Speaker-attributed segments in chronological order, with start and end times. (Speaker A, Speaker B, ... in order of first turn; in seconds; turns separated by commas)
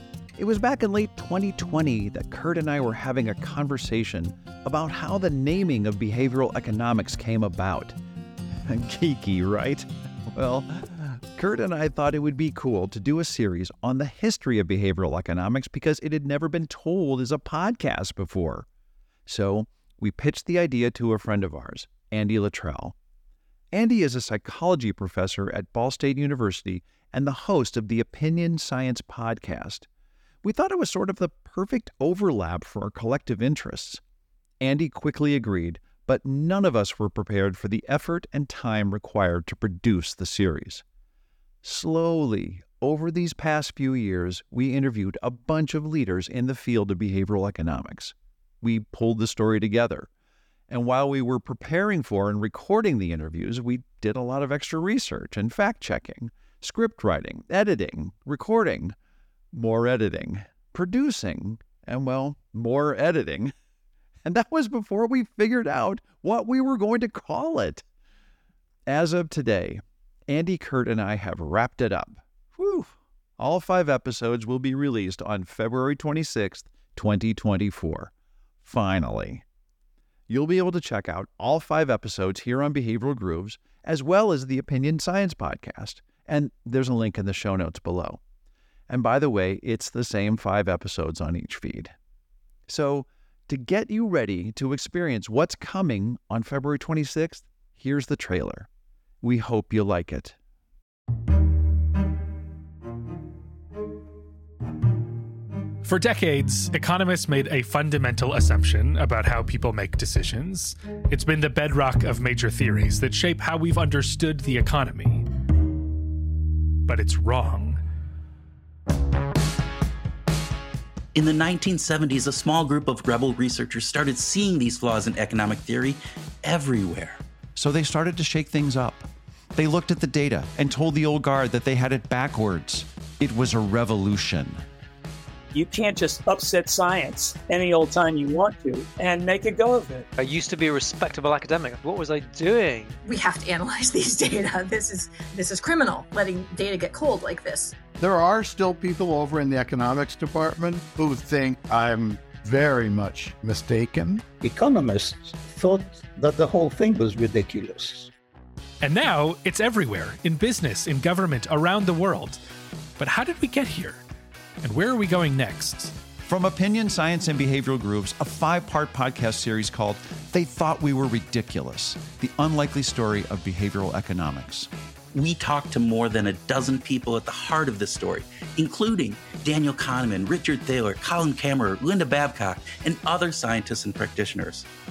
Speaker A: 0.4-8.0, Speaker A: 8.7-18.7, Speaker A: 19.3-22.9, Speaker A: 23.7-29.9, Speaker A: 30.4-34.0, Speaker A: 34.6-40.8, Speaker A: 41.6-50.1, Speaker A: 50.7-59.0, Speaker A: 59.5-63.5, Speaker A: 64.2-67.8, Speaker A: 68.9-79.5, Speaker A: 80.3-88.2, Speaker A: 88.9-91.9, Speaker A: 92.7-98.7, Speaker A: 99.2-100.4, Speaker B: 105.8-115.3, Speaker B: 116.8-117.8, Speaker C: 121.2-127.2, Speaker A: 127.6-134.6, Speaker D: 135.5-140.1, Speaker E: 140.2-143.0, Speaker F: 143.1-147.8, Speaker G: 148.0-154.2, Speaker H: 154.4-158.1, Speaker B: 158.8-162.4, Speaker B: 163.0-164.0, Speaker B: 164.6-165.9, Speaker A: 166.2-174.7, Speaker C: 175.1-184.7